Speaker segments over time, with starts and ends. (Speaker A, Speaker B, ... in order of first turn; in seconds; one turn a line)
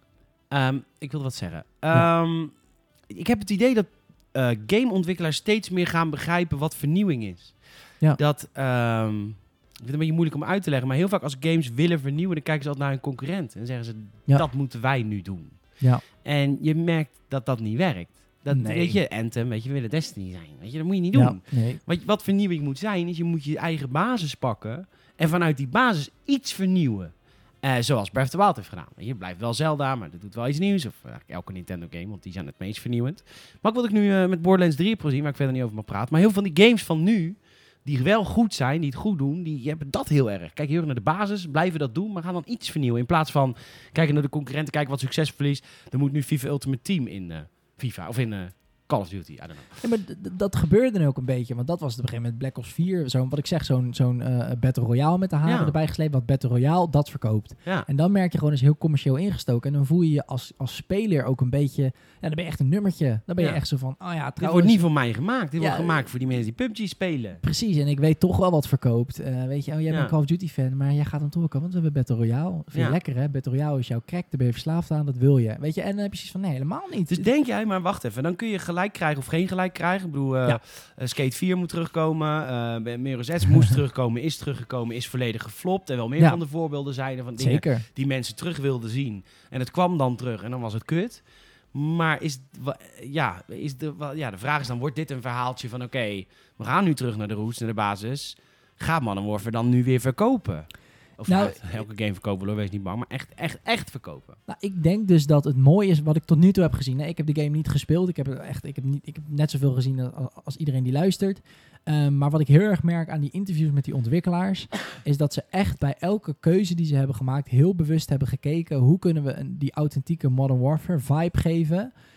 Speaker A: 0.5-49.8
Speaker B: 18.5-19.0
Speaker B: 21.1-21.8
Speaker B: 49.8-64.9
Speaker A: 55.5-55.7
Speaker A: 63.4-63.6
Speaker A: 64.4-67.4
Speaker B: 65.6-66.1
Speaker B: 67.4-77.3
Speaker A: 77.1-104.4
Speaker B: 87.4-87.9
Speaker B: 101.2-101.7
Speaker B: 104.5-121.9